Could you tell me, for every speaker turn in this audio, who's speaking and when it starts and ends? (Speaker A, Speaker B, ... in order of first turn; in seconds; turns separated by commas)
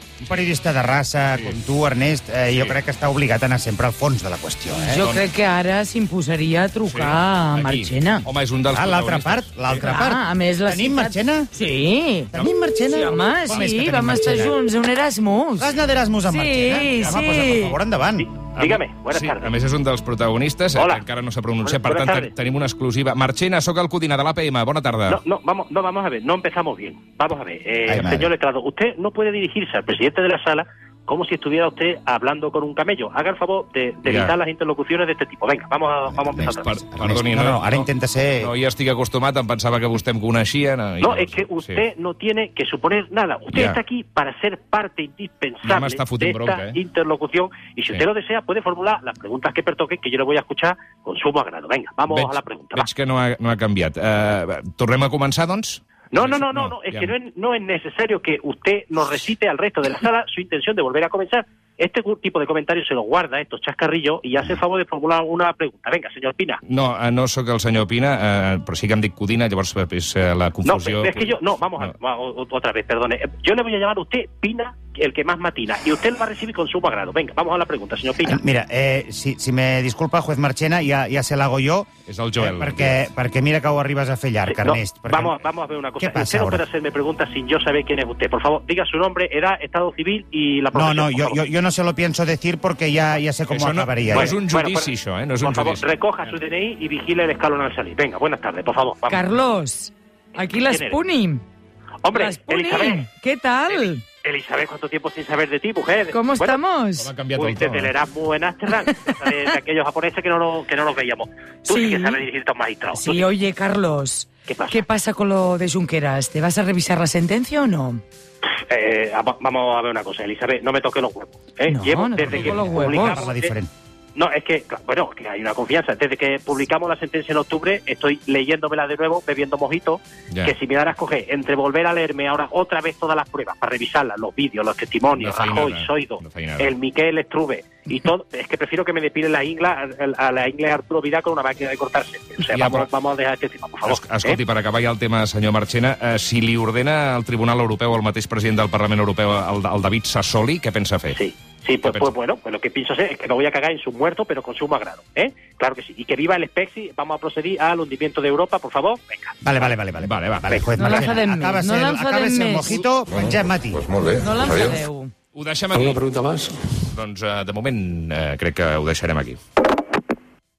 Speaker A: 0.2-5.0, Speaker B: 4.8-8.3, Speaker C: 5.0-5.2, Speaker C: 6.9-9.8, Speaker A: 8.7-11.5, Speaker B: 9.8-12.3, Speaker A: 12.3-14.6, Speaker B: 12.9-15.7, Speaker A: 15.6-18.3, Speaker B: 16.3-17.8, Speaker D: 18.2-19.5, Speaker C: 18.6-25.2, Speaker D: 20.8-21.0, Speaker D: 21.6-22.3, Speaker D: 25.1-36.7, Speaker A: 27.9-28.3, Speaker C: 34.0-34.4, Speaker A: 36.1-38.5, Speaker C: 36.4-41.8, Speaker D: 41.0-52.9, Speaker C: 43.5-43.8, Speaker C: 45.6-46.8, Speaker C: 52.1-57.1, Speaker D: 56.1-66.6, Speaker C: 66.7-71.9, Speaker D: 70.7-78.4, Speaker A: 78.2-85.4, Speaker C: 82.1-83.0, Speaker D: 84.5-91.4, Speaker A: 86.0-86.6, Speaker A: 90.7-94.4, Speaker C: 93.5-95.8, Speaker D: 94.1-99.3, Speaker B: 99.1-101.4, Speaker D: 100.5-101.0, Speaker D: 102.0-103.0, Speaker B: 102.1-104.0, Speaker D: 103.7-106.6, Speaker B: 106.1-107.1, Speaker C: 107.0-107.9, Speaker D: 107.3-113.2, Speaker B: 111.7-112.2, Speaker B: 112.9-118.0, Speaker D: 114.5-114.8, Speaker D: 118.5-123.5, Speaker B: 121.7-123.2, Speaker A: 122.3-123.7, Speaker D: 124.2-144.4, Speaker C: 135.1-136.7, Speaker C: 142.5-142.9, Speaker C: 143.9-151.2, Speaker D: 151.1-159.4, Speaker C: 151.8-152.1, Speaker A: 159.4-163.9, Speaker C: 160.0-161.1, Speaker B: 160.8-162.8, Speaker E: 163.1-164.8, Speaker B: 164.1-165.1, Speaker C: 165.3-166.1, Speaker E: 165.8-166.5, Speaker C: 166.9-169.4